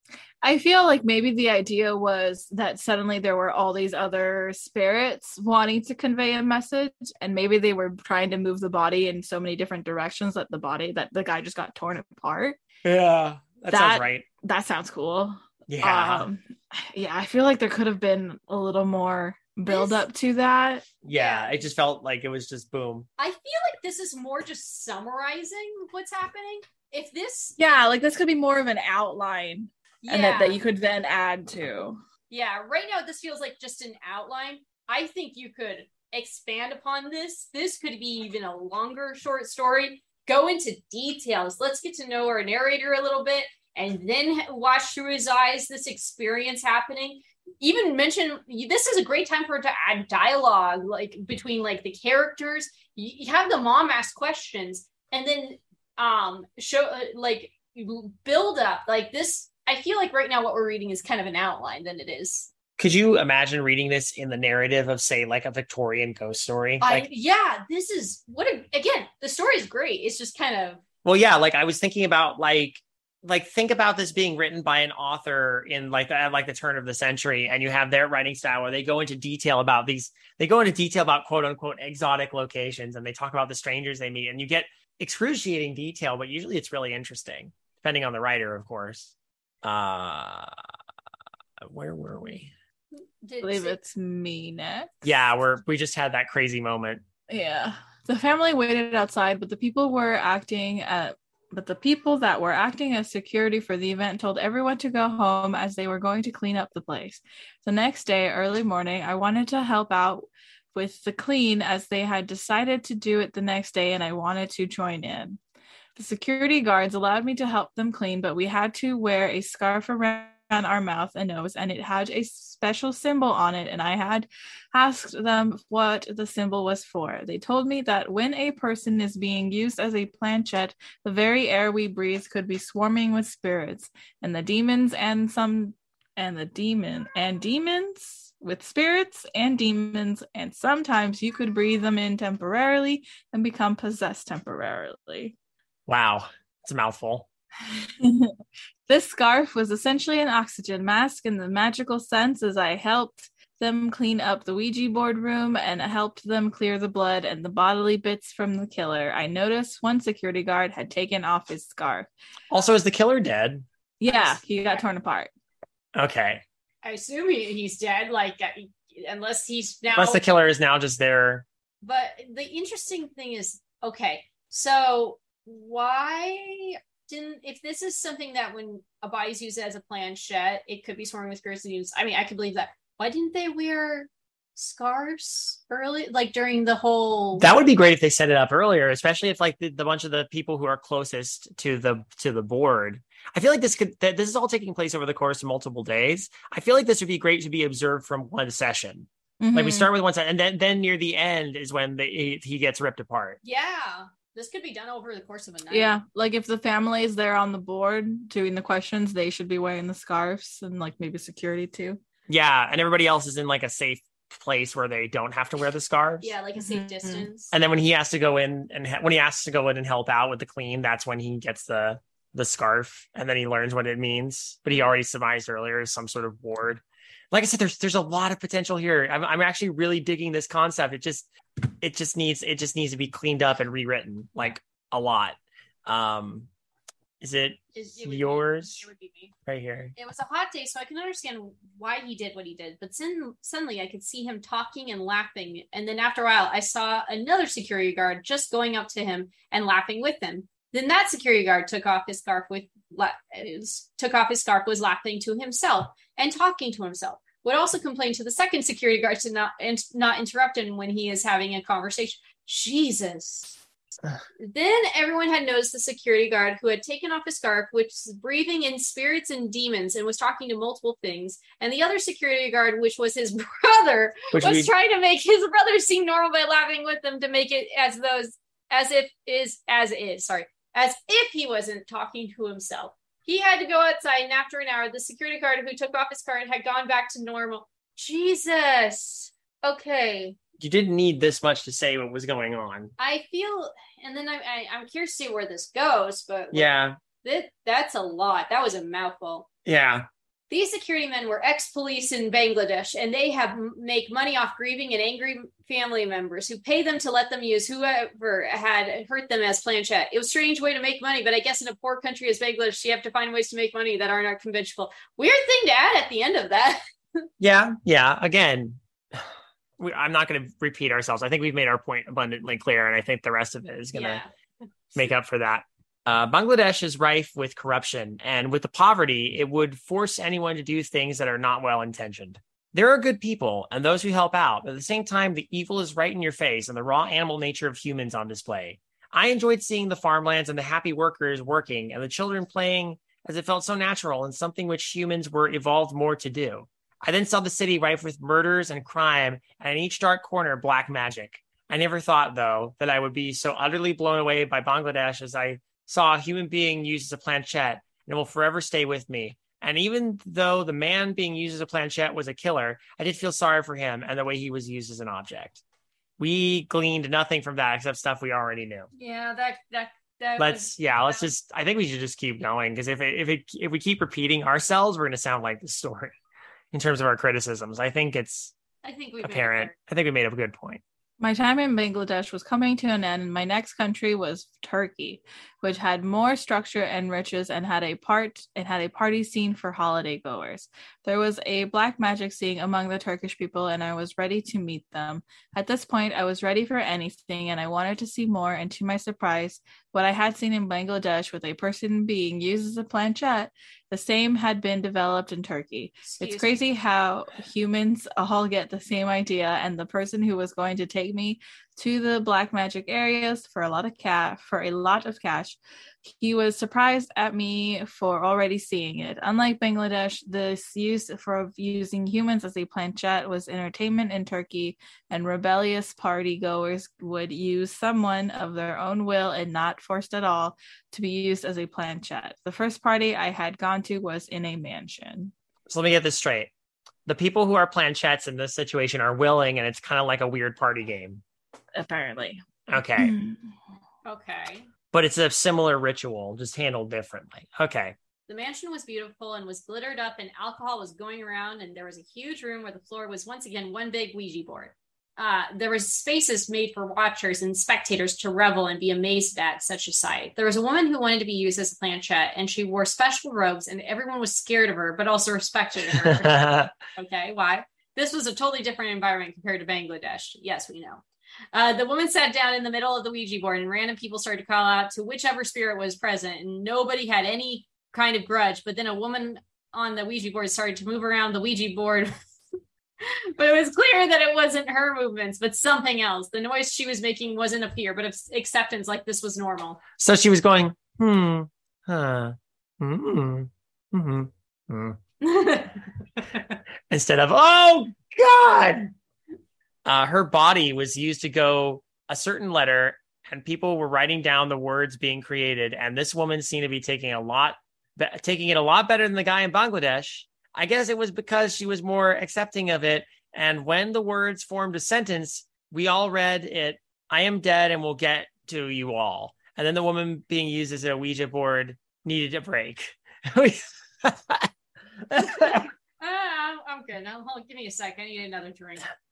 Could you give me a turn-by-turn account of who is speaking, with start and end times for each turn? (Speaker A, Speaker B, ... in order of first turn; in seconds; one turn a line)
Speaker A: 0.4-12.6
Speaker B: 12.8-14.2
Speaker A: 13.7-20.9
Speaker B: 15.7-16.2
Speaker C: 19.7-20.1
Speaker B: 21.0-23.1
Speaker C: 21.1-21.6
Speaker C: 23.2-27.6
Speaker A: 27.6-32.0
Speaker C: 30.0-30.6
Speaker C: 32.3-62.5
Speaker B: 62.8-67.1
Speaker C: 66.8-70.8
Speaker B: 71.0-90.6
Speaker B: 91.6-92.5
Speaker C: 93.2-93.8
Speaker A: 93.4-95.0
Speaker B: 95.0-97.0
Speaker A: 97.3-115.4
Speaker A: 116.0-145.3
Speaker B: 145.9-147.3
Speaker A: 148.0-148.3
Speaker A: 148.9-162.1
Speaker B: 162.5-163.7
Speaker A: 164.0-165.3
Speaker C: 164.1-164.8
Speaker B: 165.9-166.4
Speaker C: 166.8-170.2
Speaker B: 169.9-171.4
Speaker C: 171.8-187.5
Speaker B: 187.4-203.4
Speaker A: 199.4-199.9
Speaker C: 203.4-206.0
Speaker A: 205.7-212.0
Speaker B: 212.3-216.3
Speaker C: 216.2-217.5
Speaker A: 216.6-217.3
Speaker B: 217.5-231.3
Speaker B: 231.8-236.5
Speaker B: 237.2-238.8
Speaker C: 237.7-239.3
Speaker B: 239.4-239.9
Speaker C: 239.9-263.6
Speaker C: 264.4-290.4
Speaker B: 274.3-274.7
Speaker B: 290.6-292.9
Speaker C: 293.0-296.7
Speaker B: 296.5-297.0
Speaker C: 297.2-299.5
Speaker B: 299.6-300.1
Speaker C: 300.5-317.2
Speaker B: 317.4-324.2
Speaker C: 323.9-324.3
Speaker B: 324.9-365.6
Speaker B: 366.2-368.9
Speaker C: 369.0-371.3
Speaker B: 370.4-376.1
Speaker B: 376.7-378.5
Speaker C: 378.8-379.7
Speaker B: 379.2-380.8
Speaker A: 381.2-435.3
Speaker C: 406.0-406.6
Speaker B: 435.7-436.5
Speaker B: 437.1-441.2
Speaker A: 441.8-442.4
Speaker B: 442.7-443.1
Speaker A: 442.9-443.4
Speaker C: 444.0-444.7
Speaker B: 444.9-447.9
Speaker C: 448.3-482.1
Speaker B: 466.0-466.7
Speaker C: 483.0-489.8
Speaker B: 490.0-495.0
Speaker C: 495.2-496.4
Speaker B: 496.9-498.9
Speaker B: 499.9-524.5
Speaker B: 525.1-525.7
Speaker C: 526.0-528.9